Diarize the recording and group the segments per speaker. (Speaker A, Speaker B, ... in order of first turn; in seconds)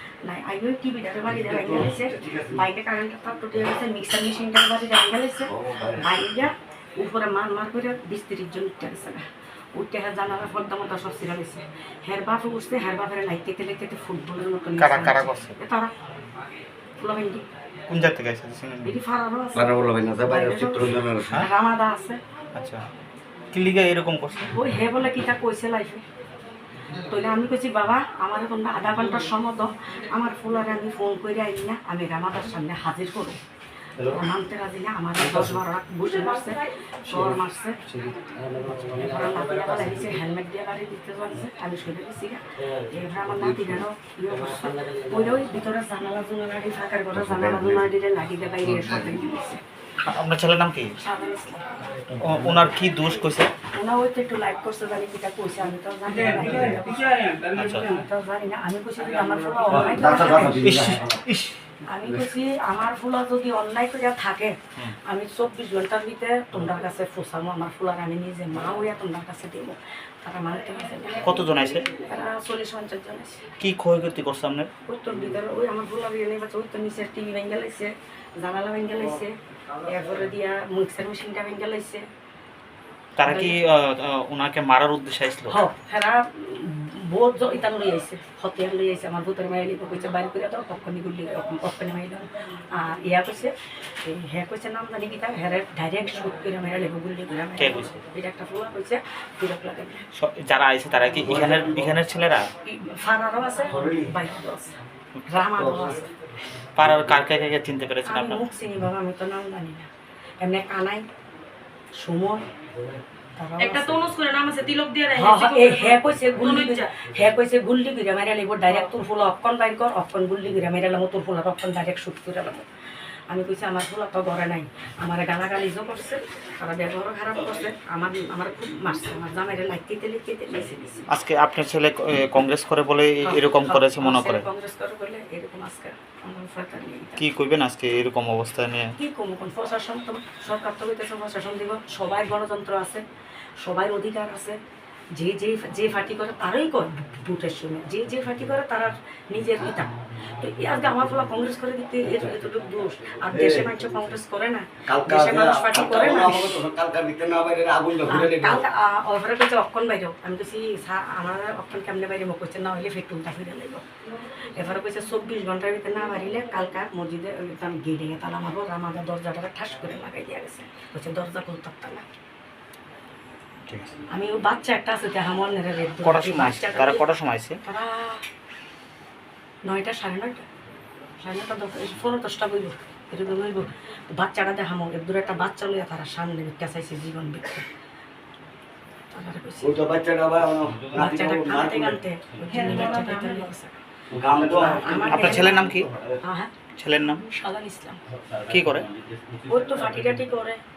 Speaker A: 0.2-9.2, 9.7-15.9, 17.0-17.4, 18.8-22.2, 24.5-26.0, 27.0-33.4, 34.0-37.8, 39.0-49.6, 51.0-51.7, 53.7-57.1, 57.8-60.6, 61.9-73.4, 74.9-82.1, 83.2-83.5, 85.5-100.0, 102.6-104.8, 105.3-106.0, 108.0-109.9, 110.4-111.0, 112.0-112.4, 113.3-114.1, 115.1-122.7, 123.3-131.1, 133.2-137.2, 139.0-143.0, 143.6-144.6, 145.2-156.6, 158.1-163.8, 164.6-172.0, 174.1-177.0, 177.7-178.2, 179.6-180.4, 181.2-187.6, 189.1-189.8, 190.9-193.8, 194.4-195.7, 196.2-196.5, 197.3-198.0, 199.5-200.6
Speaker B: 1.4-2.5, 5.6-6.1, 19.5-21.4, 37.9-40.1, 43.4-43.7, 52.0-52.5, 59.7-61.2, 101.2-102.0, 103.7-104.1, 105.5-106.0, 153.3-153.8, 154.9-158.6, 189.6-192.0, 194.1-196.1
Speaker C: 14.8-15.6, 17.9-19.0, 22.5-22.8, 23.5-24.5, 50.0-50.9, 52.2-53.5, 57.5-57.9, 60.6-61.5, 71.2-71.8, 73.6-74.7, 83.2-85.5, 97.6-97.9, 100.1-102.5, 106.8-108.4, 131.1-134.5, 137.2-138.9, 176.0-177.6, 195.1-195.9, 196.8-197.2, 198.5-198.9
Speaker D: 56.2-57.7, 113.6-117.0, 192.5-193.4